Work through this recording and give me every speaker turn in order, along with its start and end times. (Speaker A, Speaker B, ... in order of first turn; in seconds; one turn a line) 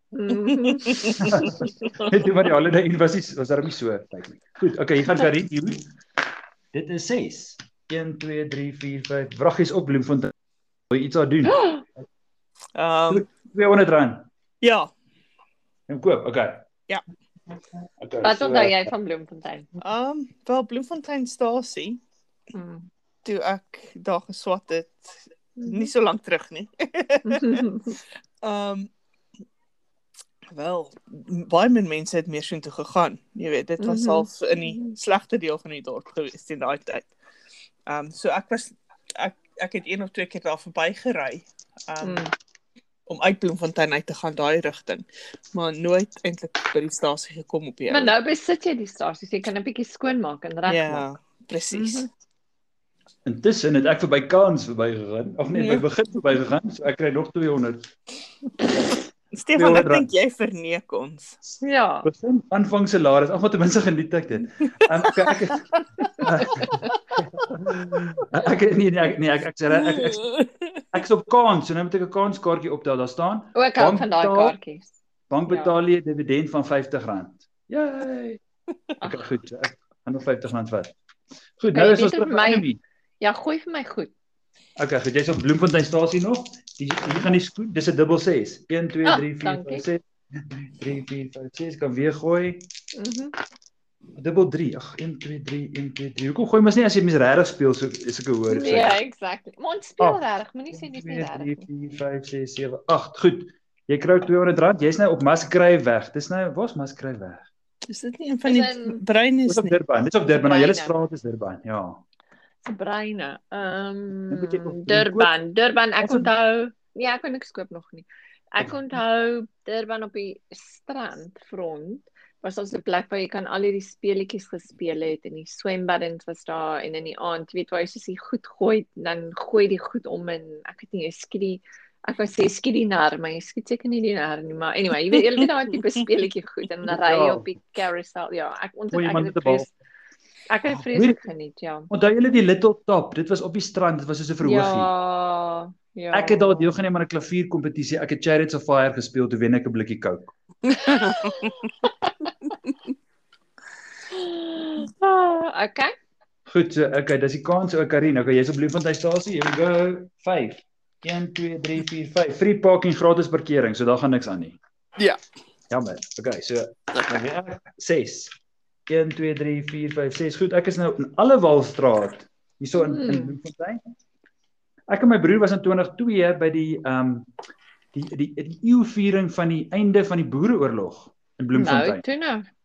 Speaker A: 0.1-2.1
Speaker B: 0.5-1.3
Speaker C: 1.2-5.8
Speaker C: 6.7-10.3
Speaker C: 10.9-11.7
Speaker A: 11.5-11.8
Speaker B: 12.8-13.3
Speaker C: 13.1-14.3
Speaker B: 14.6-14.9
Speaker C: 15.9-16.6
Speaker C: 18.0-18.9
Speaker A: 18.2-19.7
Speaker B: 19.8-22.0
Speaker A: 22.5-22.9
Speaker B: 23.2-27.8
Speaker A: 25.6-25.9
Speaker A: 27.3-28.0
Speaker B: 28.4-28.9
Speaker B: 30.5-37.1
Speaker A: 33.8-34.9
Speaker B: 37.9-42.3
Speaker A: 42.0-42.3
Speaker B: 43.1-48.1
Speaker A: 47.9-51.0
Speaker B: 50.7-52.1
Speaker A: 51.7-52.1
Speaker C: 53.2-57.9
Speaker B: 55.5-55.9
Speaker B: 59.3-61.4
Speaker C: 59.5-60.1
Speaker A: 61.6-62.1
Speaker C: 62.0-70.2
Speaker B: 65.2-65.6
Speaker B: 69.7-70.7
Speaker C: 70.9-74.6
Speaker A: 73.5-74.9
Speaker C: 75.3-78.4
Speaker A: 75.5-75.7
Speaker C: 79.0-80.9
Speaker C: 81.6-82.8
Speaker A: 81.7-82.7
Speaker A: 83.2-84.1
Speaker C: 84.8-92.6
Speaker A: 89.0-89.8
Speaker A: 92.9-93.4
Speaker C: 94.2-99.0
Speaker A: 98.5-101.7
Speaker C: 100.7-107.4
Speaker B: 107.9-109.8
Speaker A: 108.5-109.0
Speaker C: 109.5-112.0
Speaker A: 110.3-111.0
Speaker A: 112.6-139.7
Speaker C: 114.3-115.3
Speaker C: 116.0-116.3
Speaker B: 135.1-135.4
Speaker C: 137.0-137.5
Speaker C: 138.9-139.7
Speaker A: 140.5-141.9
Speaker C: 140.9-141.2
Speaker C: 141.9-144.9
Speaker A: 144.4-146.7
Speaker C: 146.1-150.3
Speaker B: 150.7-151.6
Speaker A: 150.8-152.3
Speaker A: 154.1-155.9
Speaker C: 156.5-164.6
Speaker C: 165.7-168.3
Speaker B: 166.9-167.2
Speaker C: 168.9-173.8
Speaker A: 172.8-173.4
Speaker C: 174.9-177.3
Speaker C: 177.9-182.0
Speaker A: 181.5-182.4